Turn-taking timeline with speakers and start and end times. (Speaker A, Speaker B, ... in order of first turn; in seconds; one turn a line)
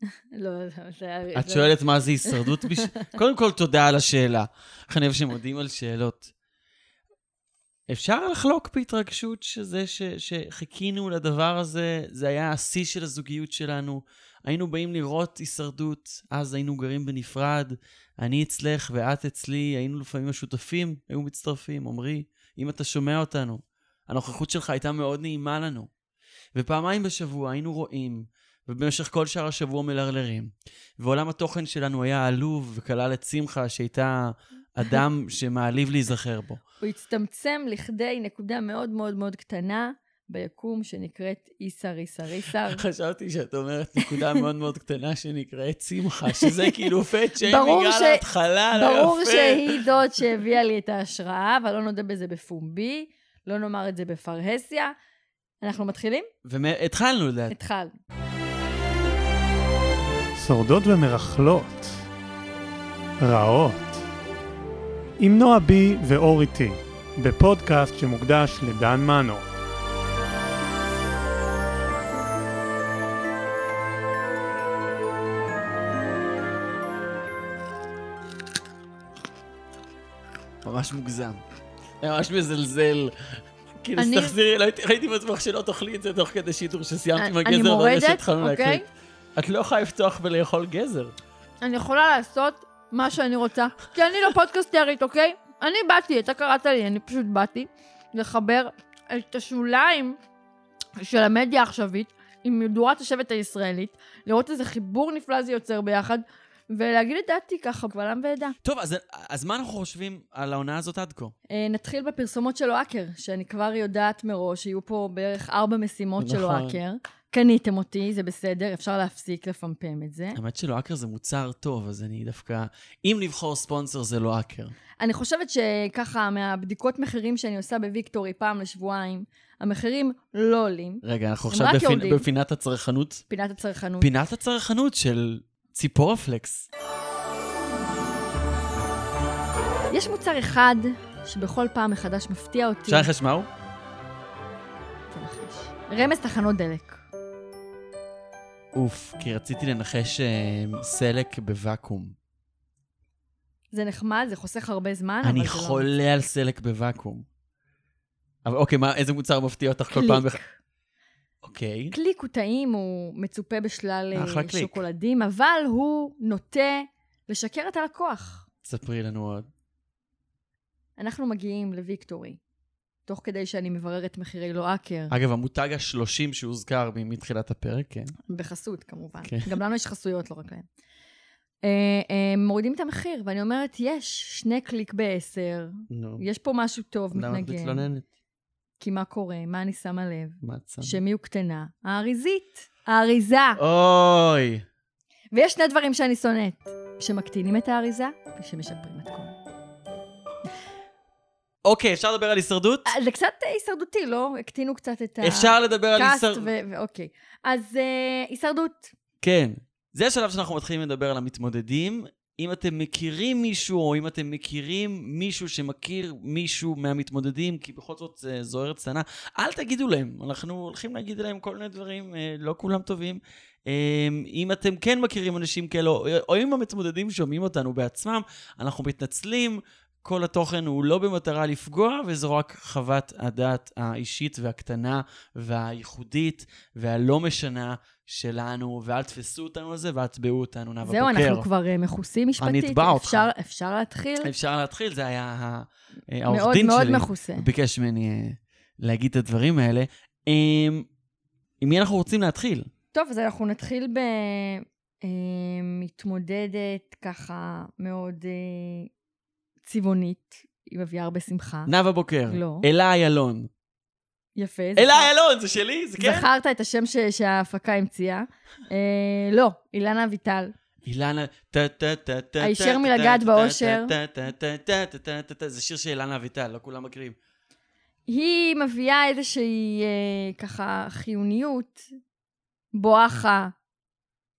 Speaker A: 0.3-1.7
Speaker B: 1.3-6.3
Speaker B: 7.9-25.9
Speaker B: 26.6-36.6
Speaker A: 36.9-42.7
Speaker B: 42.6-49.8
Speaker A: 47.6-48.2
Speaker A: 48.8-55.0
Speaker A: 55.6-56.3
Speaker B: 56.5-57.5
Speaker A: 57.6-57.9
Speaker C: 60.4-62.1
Speaker C: 63.2-64.0
Speaker C: 65.2-69.5
Speaker B: 80.6-81.4
Speaker B: 82.0-88.8
Speaker A: 84.0-84.3
Speaker A: 87.2-88.8
Speaker B: 89.4-91.1
Speaker A: 91.6-100.2
Speaker A: 101.0-108.5
Speaker B: 108.6-111.3
Speaker A: 111.5-120.4
Speaker B: 116.2-116.8
Speaker B: 120.3-124.8
Speaker A: 125.0-132.2
Speaker B: 131.0-133.2
Speaker A: 133.3-134.1
Speaker B: 134.0-136.7
Speaker A: 139.9-143.1
Speaker B: 142.9-143.5
Speaker A: 145.1-147.0
Speaker B: 148.7-152.2
Speaker A: 153.7-155.9
Speaker B: 155.2-157.3
Speaker B: 158.4-160.4
Speaker B: 161.4-161.9
Speaker A: 162.0-168.4
Speaker B: 164.1-164.8
Speaker B: 168.7-169.5
Speaker A: 171.0-172.4
Speaker A: 173.1-175.1
Speaker B: 175.1-178.1
Speaker A: 178.3-180.7
Speaker B: 179.2-179.6
Speaker A: 181.6-187.8
Speaker B: 185.9-186.2
Speaker B: 187.1-188.1
Speaker A: 188.8-190.4
Speaker B: 190.4-191.0
Speaker A: 190.9-193.6
Speaker B: 193.6-194.6
Speaker A: 195.3-199.3
Speaker B: 201.6-202.9
Speaker A: 202.9-208.8
Speaker B: 205.2-206.5
Speaker B: 209.2-241.5
Speaker A: 240.8-244.3
Speaker B: 242.4-243.3
Speaker B: 244.2-250.9
Speaker A: 246.3-247.4
Speaker B: 251.6-252.7
Speaker A: 252.9-258.9
Speaker A: 259.7-261.7
Speaker B: 261.7-263.5
Speaker A: 262.3-262.6
Speaker A: 264.4-265.1
Speaker B: 264.8-266.3
Speaker A: 266.1-270.5
Speaker B: 270.9-277.2
Speaker A: 272.4-273.9
Speaker A: 278.1-281.8
Speaker A: 282.8-283.5